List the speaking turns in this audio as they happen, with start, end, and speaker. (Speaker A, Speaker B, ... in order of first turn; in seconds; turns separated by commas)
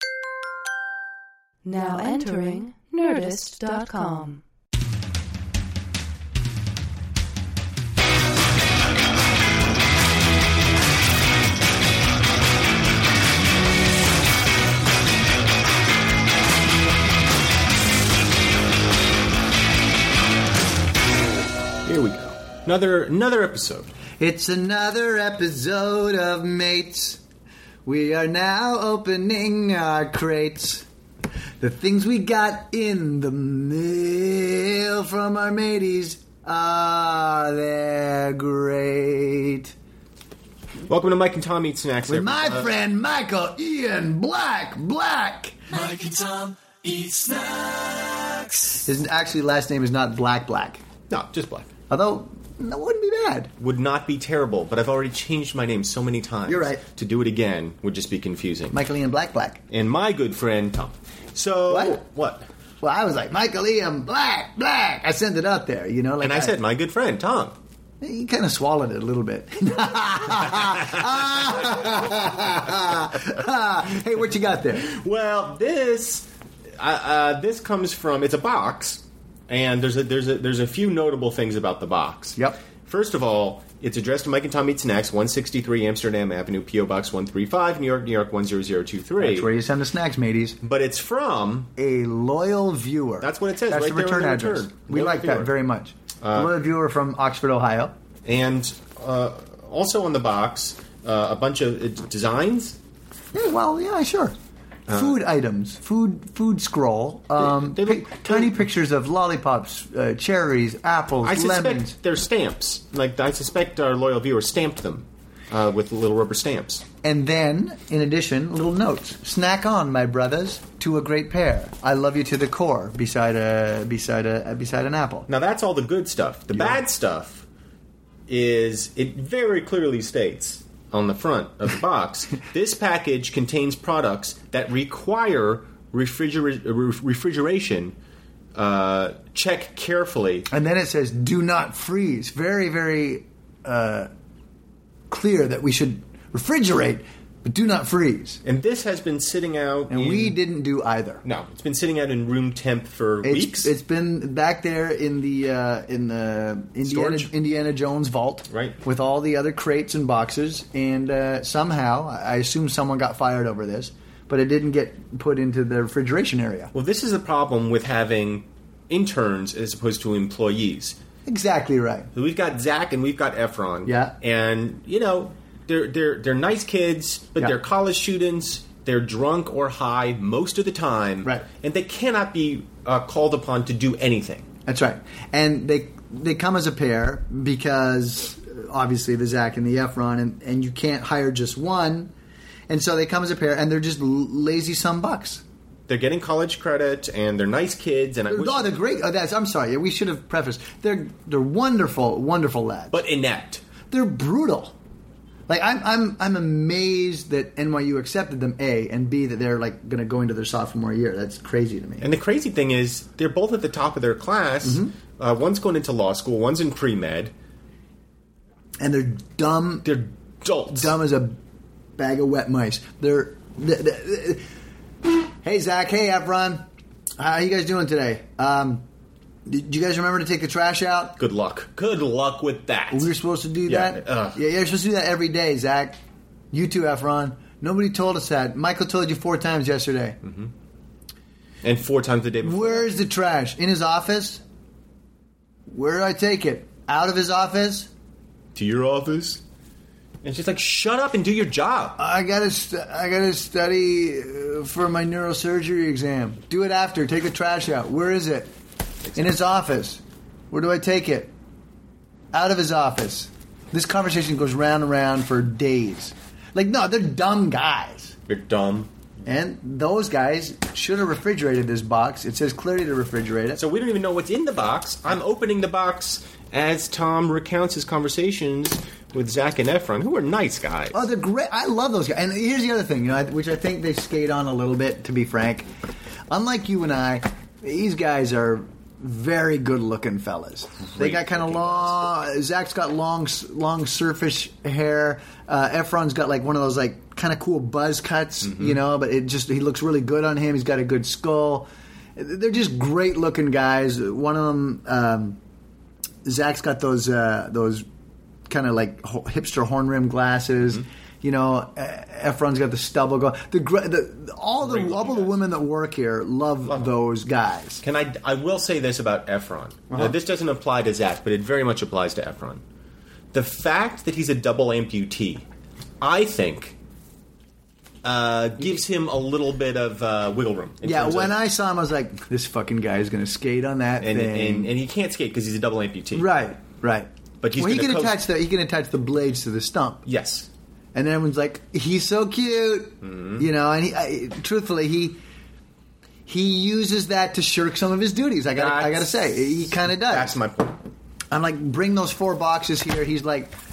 Speaker A: 1.6-4.4, Speaker B: 21.8-23.9, Speaker C: 24.2-27.2, Speaker C: 27.8-30.9, Speaker C: 31.6-39.7, Speaker B: 40.9-42.7, Speaker C: 42.1-45.7, Speaker D: 45.9-48.2, Speaker B: 47.7-48.6, Speaker C: 48.7-50.8, Speaker B: 51.1-51.7, Speaker C: 51.9-53.5, Speaker B: 53.6-58.8, Speaker C: 56.5-56.8, Speaker C: 58.7-59.6, Speaker B: 59.7-62.5, Speaker C: 61.7-62.0, Speaker C: 62.8-66.5, Speaker B: 66.2-67.6, Speaker C: 68.0-74.9, Speaker B: 74.7-76.3, Speaker B: 76.8-89.5, Speaker C: 89.2-90.6, Speaker B: 90.6-91.7, Speaker C: 91.8-97.9, Speaker B: 93.2-95.5, Speaker B: 96.2-96.5, Speaker B: 98.2-102.8, Speaker C: 103.3-104.3, Speaker B: 104.9-105.2, Speaker C: 104.9-111.9, Speaker B: 107.4-108.5, Speaker B: 111.2-116.8, Speaker C: 117.0-125.3, Speaker B: 125.3-127.4, Speaker C: 126.5-126.8, Speaker B: 128.3-137.9, Speaker B: 138.5-140.5, Speaker C: 140.5-144.1, Speaker C: 145.1-148.4, Speaker B: 148.4-150.4, Speaker C: 149.9-151.2, Speaker B: 151.2-153.7, Speaker C: 153.2-166.7, Speaker B: 156.8-157.3, Speaker B: 158.5-158.8, Speaker B: 166.7-171.0, Speaker C: 171.2-172.1, Speaker B: 172.1-184.5, Speaker C: 173.8-174.2, Speaker C: 184.7-192.1, Speaker C: 192.7-195.4, Speaker B: 195.9-198.7, Speaker C: 198.3-203.0, Speaker B: 202.9-203.6, Speaker C: 203.9-204.7, Speaker C: 205.5-212.1, Speaker B: 212.0-217.3, Speaker C: 214.6-214.9, Speaker C: 218.8-219.9, Speaker B: 219.8-220.9, Speaker C: 220.7-221.4, Speaker C: 222.0-224.4, Speaker C: 225.4-226.6, Speaker C: 227.2-228.8, Speaker C: 229.4-231.2, Speaker B: 231.2-233.1, Speaker C: 232.9-236.0, Speaker B: 233.7-234.4, Speaker C: 236.5-240.2, Speaker B: 240.2-240.5, Speaker B: 241.6-242.9, Speaker C: 242.4-244.4, Speaker C: 245.7-247.9, Speaker B: 248.5-249.4, Speaker B: 250.2-252.0, Speaker C: 252.0-258.5, Speaker C: 259.1-261.3, Speaker C: 262.3-268.1, Speaker B: 268.3-268.9, Speaker C: 269.2-273.6, Speaker B: 273.6-281.0, Speaker C: 280.9-285.7, Speaker C: 286.3-305.4, Speaker B: 290.9-292.1, Speaker B: 298.4-298.8, Speaker C: 306.2-307.9, Speaker C: 308.5-317.8, Speaker B: 314.6-315.4, Speaker B: 317.8-322.6, Speaker C: 319.9-320.1, Speaker B: 323.3-325.4, Speaker B: 326.0-326.8, Speaker B: 328.0-331.3, Speaker C: 330.8-334.7, Speaker B: 334.0-336.3, Speaker C: 336.1-340.0, Speaker B: 337.4-338.2, Speaker B: 340.1-340.5, Speaker C: 340.9-345.2, Speaker B: 343.0-343.4, Speaker C: 346.3-350.3, Speaker B: 348.5-349.1, Speaker B: 349.8-350.8, Speaker C: 351.3-353.5